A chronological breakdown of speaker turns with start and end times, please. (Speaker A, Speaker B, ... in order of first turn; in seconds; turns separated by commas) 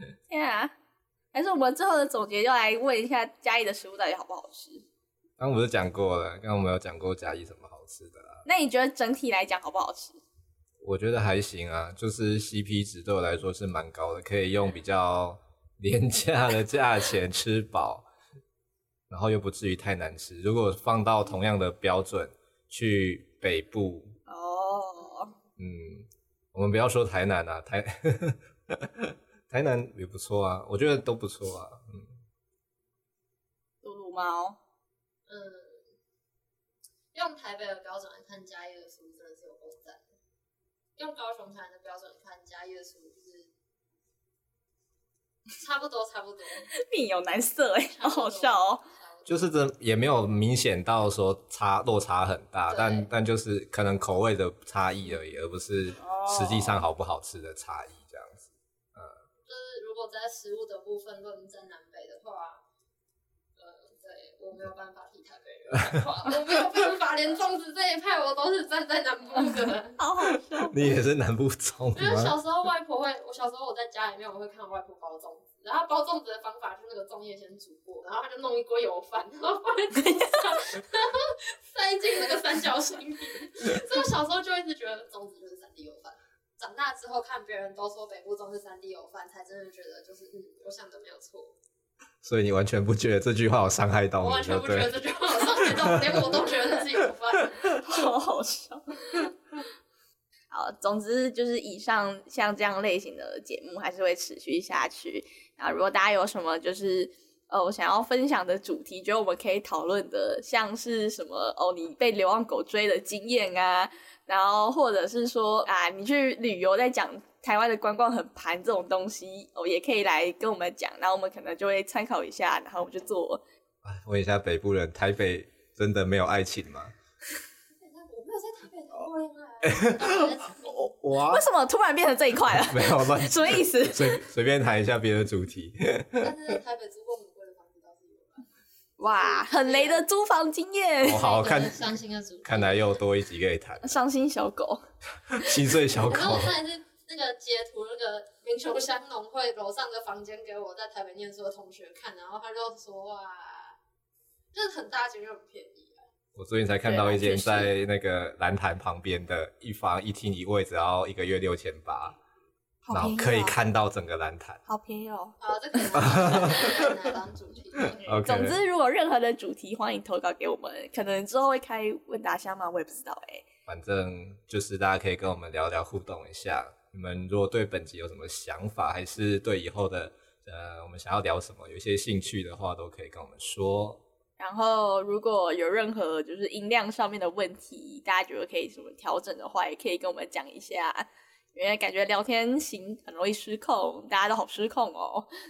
Speaker A: 0.3-0.7, Speaker A: 1.3-4.8, Speaker B: 5.4-8.4, Speaker A: 8.4-10.2, Speaker B: 10.8-18.0, Speaker B: 19.1-24.2, Speaker A: 24.3-25.3, Speaker B: 25.6-32.1, Speaker A: 33.8-34.6, Speaker C: 35.3-35.8, Speaker C: 37.1-40.1, Speaker C: 41.0-43.5, Speaker C: 45.5-46.7, Speaker A: 46.7-48.8, Speaker C: 47.9-49.5, Speaker B: 49.3-59.1, Speaker C: 52.7-53.1, Speaker A: 56.0-56.8, Speaker C: 59.5-62.6, Speaker C: 63.6-70.0, Speaker A: 70.0-70.9, Speaker B: 70.5-72.4, Speaker C: 71.9-91.5, Speaker B: 92.2-95.0, Speaker C: 94.2-97.8, Speaker B: 95.6-96.3, Speaker A: 97.8-99.3, Speaker A: 100.5-123.4, Speaker B: 123.8-126.9, Speaker C: 127.8-130.9, Speaker B: 129.6-131.4, Speaker A: 131.2-134.2, Speaker B: 132.5-136.3, Speaker C: 136.2-138.5, Speaker A: 139.0-141.2, Speaker C: 139.0-140.0, Speaker B: 141.0-141.8, Speaker C: 141.0-142.8, Speaker B: 142.4-143.9, Speaker A: 143.8-144.8, Speaker B: 145.3-146.6, Speaker C: 146.0-153.8, Speaker C: 154.5-156.0, Speaker B: 156.3-162.2, Speaker A: 156.8-157.7, Speaker A: 162.8-163.6, Speaker B: 162.9-164.6, Speaker A: 164.7-166.2, Speaker C: 165.4-168.1, Speaker B: 165.9-166.9, Speaker B: 168.0-168.6, Speaker A: 168.0-173.4, Speaker B: 173.7-184.0, Speaker A: 184.4-195.3